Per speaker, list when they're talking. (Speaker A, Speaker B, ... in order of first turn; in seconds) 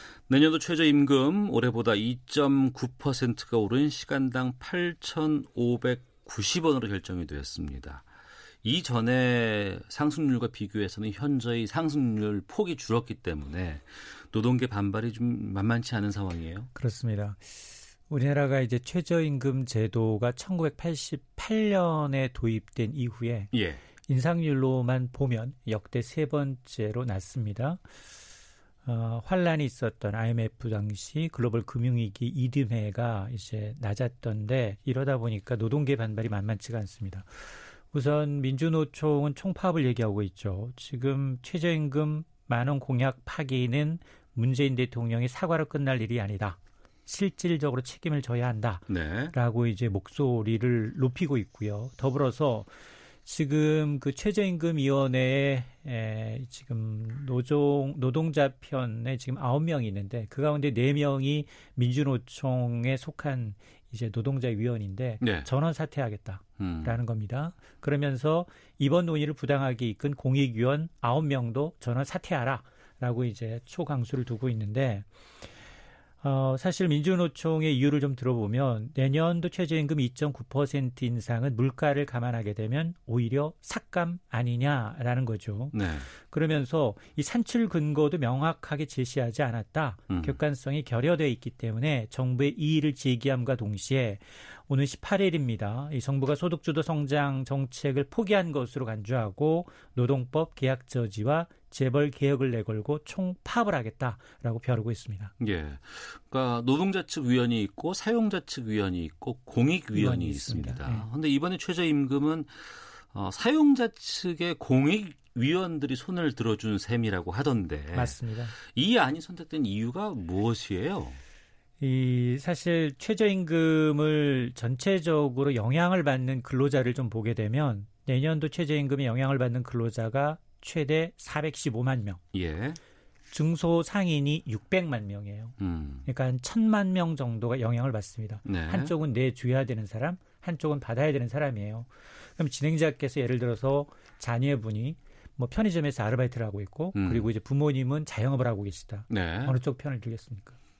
Speaker A: 0.3-8.0, 8.6-16.7, 23.5-23.8, 48.9-49.4, 65.2-65.5, 66.6-67.0, 85.7-86.1, 90.1-90.4, 105.4-121.2, 132.3-132.8, 135.6-136.1, 138.4-138.9, 146.9-147.3, 149.1-149.6
Speaker B: 16.8-17.5, 18.1-27.8, 28.9-52.7, 53.2-75.0, 76.2-105.3, 109.9-111.0, 117.9-118.5, 121.8-132.2, 133.3-135.6, 136.1-150.6